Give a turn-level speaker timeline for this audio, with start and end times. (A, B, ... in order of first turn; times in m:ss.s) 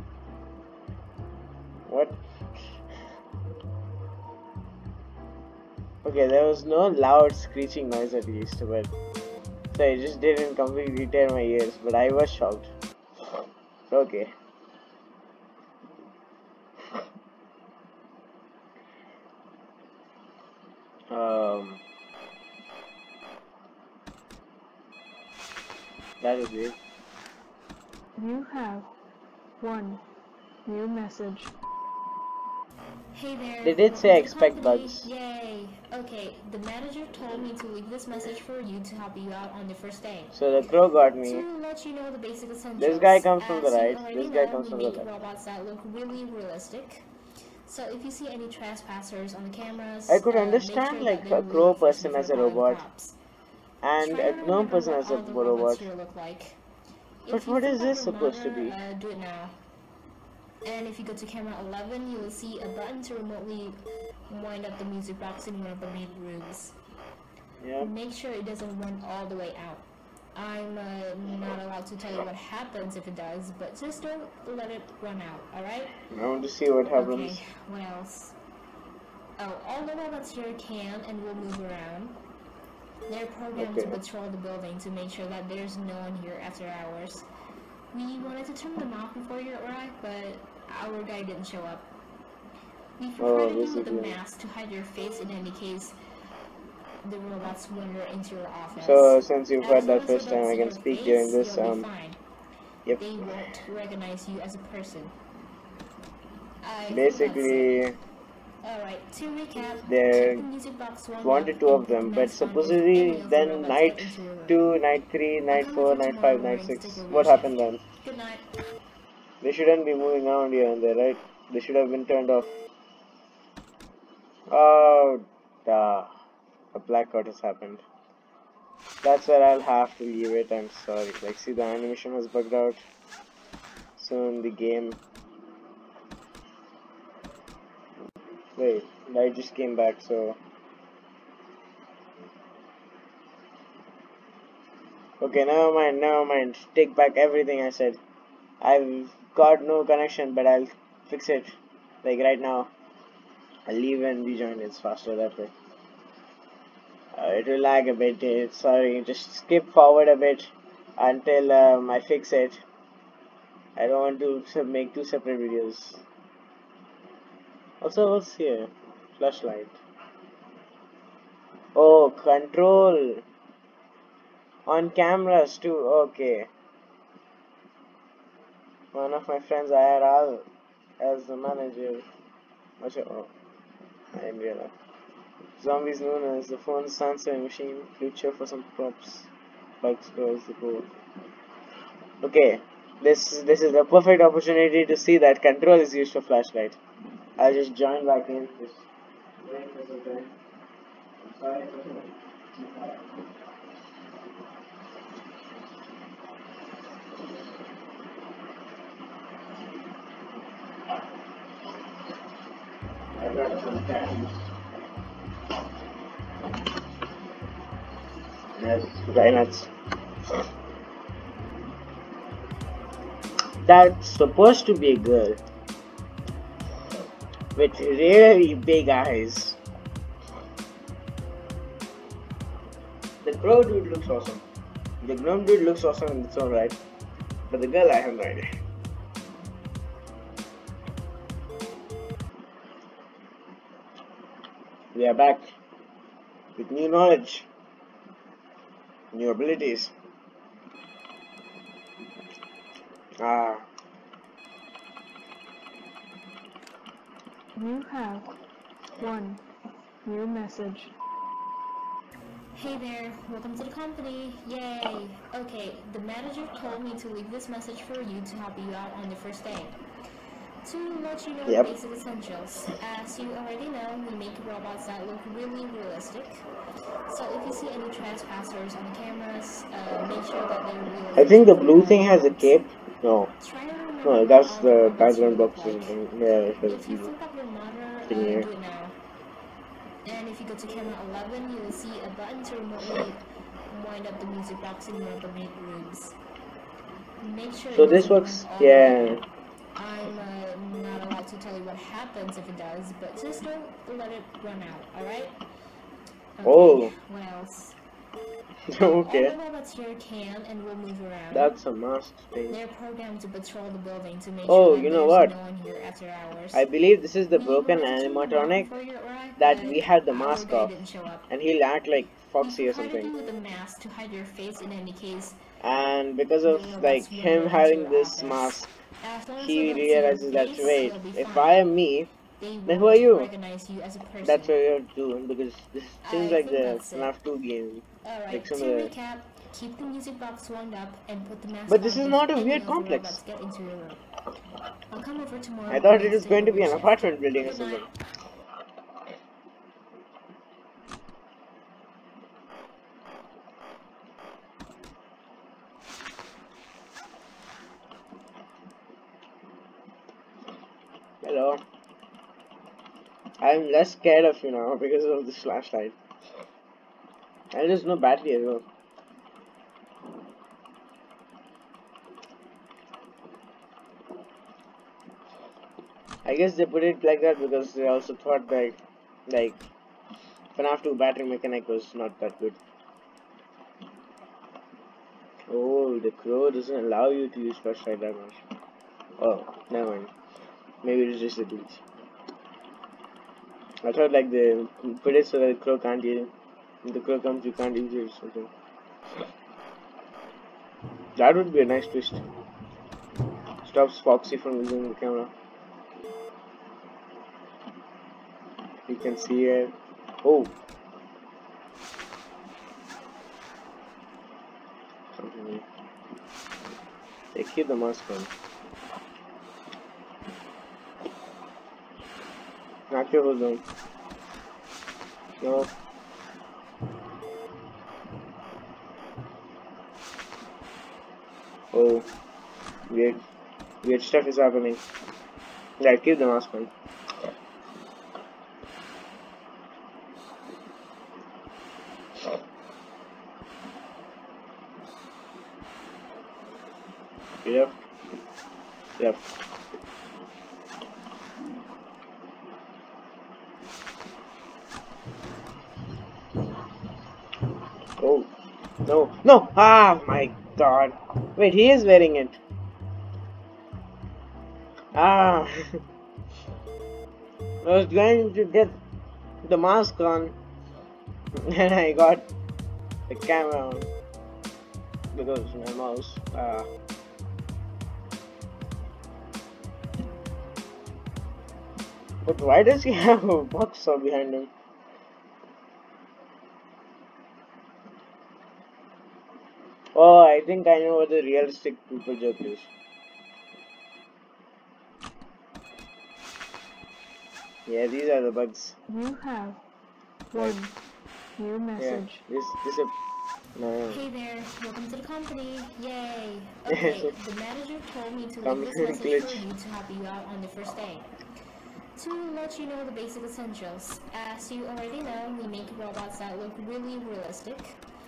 0:01.9-0:02.8 A
0:06.0-0:08.9 A
0:09.7-0:12.7 A
0:13.9-0:14.3 A
0:21.1-0:21.8 A
0:26.2-0:26.8 A
0:28.2-0:28.9 B
0:29.6-0:30.0 B
0:30.7-0:31.5 B
0:33.1-0:40.4 C
0:33.6-0:35.1 A
0:40.3-0:41.4 A
0:41.2-0:47.1 C
0:42.8-0:45.1 A
0:47.7-0:53.2 C
0:50.1-0:52.8 A
0:53.8-0:55.9 A
0:54.0-0:56.6 C
0:57.2-0:59.6 C
0:57.3-0:58.8 A
1:00.6-1:06.8 C
1:07.6-1:07.9 A
1:07.8-1:16.0 C
1:16.1-1:17.4 A
1:17.0-1:18.4 C
1:19.4-1:22.2 C
1:23.1-1:27.3 C
1:23.6-1:24.0 A
1:27.9-1:31.9 C
1:33.0-1:36.0 C
1:33.2-1:34.2 A
1:37.0-1:42.2 C
1:38.8-1:41.9 A
1:43.0-1:45.1 C
1:46.6-1:47.8 C
1:46.9-1:48.0 A
1:48.6-1:54.6 C
1:49.9-1:50.5 A
1:51.2-1:57.8 A
1:55.5-1:58.4 C
1:59.4-2:02.5 A
2:04.5-2:06.1 A
2:06.7-2:07.8 A
2:09.0-2:12.8 A
2:14.0-2:15.0 A
2:18.6-2:20.4 A
2:25.2-2:28.0 A
2:28.6-2:32.7 A
2:33.7-2:35.5 A
2:37.1-2:42.6 A
2:43.8-2:46.0 A
2:47.8-2:49.8 A
2:51.8-2:53.2 A
2:54.7-2:56.5 A
2:58.9-3:00.5 A
3:01.0-3:02.1 A
3:02.8-3:03.3 A
3:04.1-3:04.7 A
3:05.6-3:09.3 A
3:09.8-3:10.9 A
3:12.2-3:16.8 A
3:17.4-3:18.9 A
3:19.4-3:20.3 A
3:21.2-3:23.2 A
3:33.2-3:34.5 A
3:38.6-3:39.7 A
3:43.6-3:45.4 A
3:47.6-3:49.6 A
3:53.2-3:54.4 A
3:55.0-3:56.8 A
3:57.5-3:58.5 A
4:04.9-4:05.5 A
4:06.6-4:07.5 A
4:09.1-4:09.9 A
4:13.2-4:13.7 A
4:17.6-4:18.3 B
4:19.0-4:19.4 B
4:20.1-4:20.9 B
4:22.6-4:29.8 C
4:30.6-4:36.5 C
4:31.5-4:31.7 A
4:37.1-4:42.6 C
4:41.2-4:43.3 A
4:43.4-4:46.0 C
4:44.0-4:47.1 A
4:46.6-4:49.0 C
4:48.1-4:48.5 A
4:50.0-4:56.2 C
4:57.2-4:59.2 C
4:57.7-4:59.2 A
4:59.8-5:05.4 C
5:06.4-5:07.8 C
5:06.4-5:06.9 A
5:08.7-5:09.4 A
5:08.8-5:11.5 C
5:11.3-5:12.6 A
5:12.5-5:16.6 C
5:14.5-5:15.3 A
5:16.5-5:18.7 A
5:17.3-5:21.3 C
5:19.4-5:20.7 A
5:21.3-5:23.1 A
5:22.4-5:25.4 C
5:25.6-5:28.7 A
5:26.4-5:31.7 C
5:29.4-5:32.1 A
5:32.4-5:34.5 C
5:32.7-5:33.3 A
5:34.2-5:38.9 A
5:36.0-5:37.1 C
5:38.0-5:44.0 C
5:41.7-5:43.2 A
5:44.9-5:47.9 C
5:45.7-5:47.9 A
6:01.2-6:01.6 A
6:03.4-6:06.0 A
6:07.5-6:08.6 A
6:16.2-6:19.6 A
6:20.6-6:22.6 A
6:25.5-6:28.4 A
6:29.2-6:30.1 A
6:30.8-6:31.8 A
6:33.8-6:36.3 A
6:36.8-6:38.5 A
6:41.2-6:42.2 A
6:43.6-6:45.3 A
6:48.9-6:50.6 A
6:55.2-6:55.6 A
6:57.3-6:58.3 A
7:02.9-7:03.6 A
7:05.4-7:05.7 A
7:11.7-7:12.1 A
7:12.9-7:13.2 A
7:13.8-7:14.8 A
7:15.8-7:16.7 A
7:27.4-7:27.8 A
7:29.0-7:29.3 A
7:38.0-7:38.3 A
7:38.8-7:42.4 A
7:44.9-7:45.8 A
7:47.6-7:48.8 A
7:49.4-7:50.4 A
7:51.4-7:52.3 A
7:53.1-7:53.9 A
7:55.1-7:56.7 A
8:02.2-8:04.5 A
8:10.0-8:12.7 A
8:17.7-8:18.8 A
8:18.9-8:19.6 B
8:20.3-8:20.7 B
8:21.4-8:22.2 B
8:21.8-8:22.9 A
8:23.6-8:24.0 A
8:23.9-8:31.1 C
8:26.7-8:27.1 A
8:28.4-8:29.5 A
8:32.0-8:37.8 C